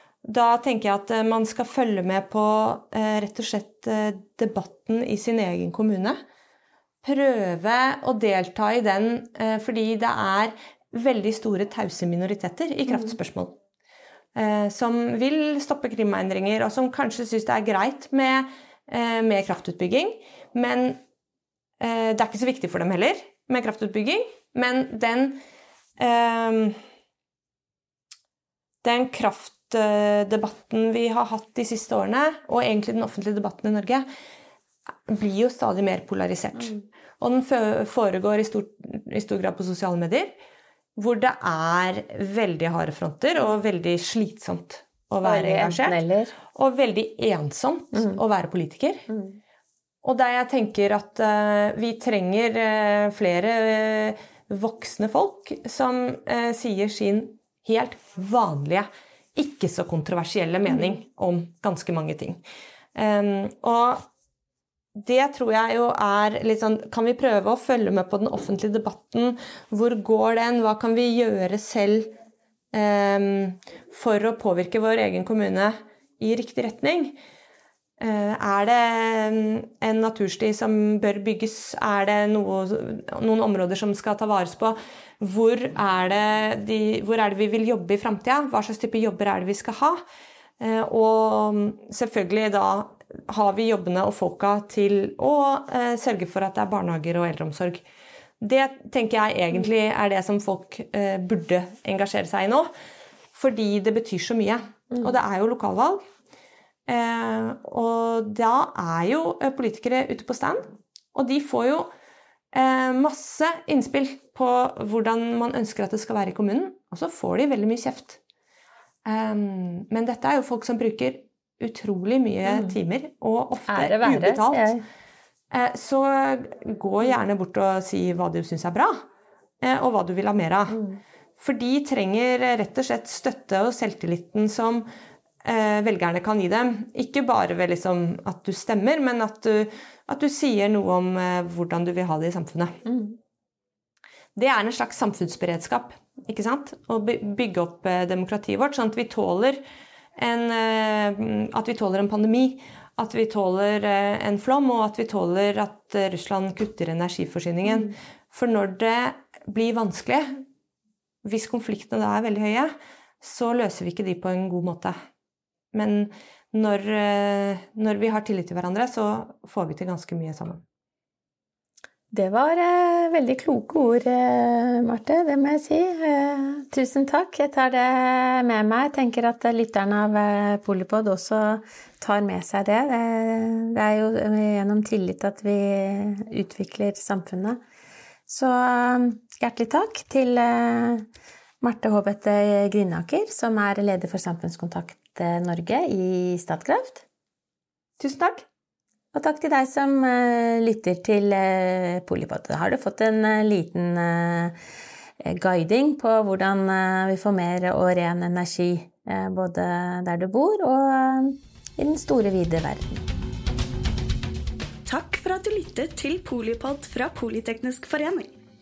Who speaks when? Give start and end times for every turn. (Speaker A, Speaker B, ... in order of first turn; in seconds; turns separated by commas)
Speaker A: 0.2-6.2, Speaker A: 7.0-13.6, Speaker A: 14.3-21.0, Speaker A: 21.8-25.4, Speaker A: 26.0-26.8, Speaker A: 28.8-34.0, Speaker A: 35.1-40.3, Speaker A: 41.0-46.0, Speaker B: 45.2-46.3, Speaker A: 46.5-49.1, Speaker B: 49.1-49.4, Speaker A: 50.0-62.4, Speaker A: 62.9-64.1, Speaker A: 64.9-72.1, Speaker A: 72.7-77.2, Speaker A: 78.0-90.0, Speaker A: 90.6-97.8, Speaker A: 98.4-102.7, Speaker A: 103.3-106.0, Speaker A: 106.9-111.9, Speaker A: 112.5-118.2, Speaker A: 119.0-124.7, Speaker B: 123.7-124.8, Speaker A: 125.5-129.0, Speaker A: 129.6-130.8, Speaker B: 130.7-131.0, Speaker A: 131.4-134.8, Speaker A: 135.4-142.8, Speaker B: 142.8-143.2, Speaker A: 144.3-149.6, Speaker A: 150.2-160.4, Speaker A: 161.2-164.9, Speaker A: 165.7-170.6, Speaker B: 172.1-187.6, Speaker B: 188.3-191.1, Speaker B: 191.6-197.0, Speaker A: 198.0-198.4, Speaker B: 199.1-204.6, Speaker B: 205.2-213.1, Speaker C: 214.8-218.3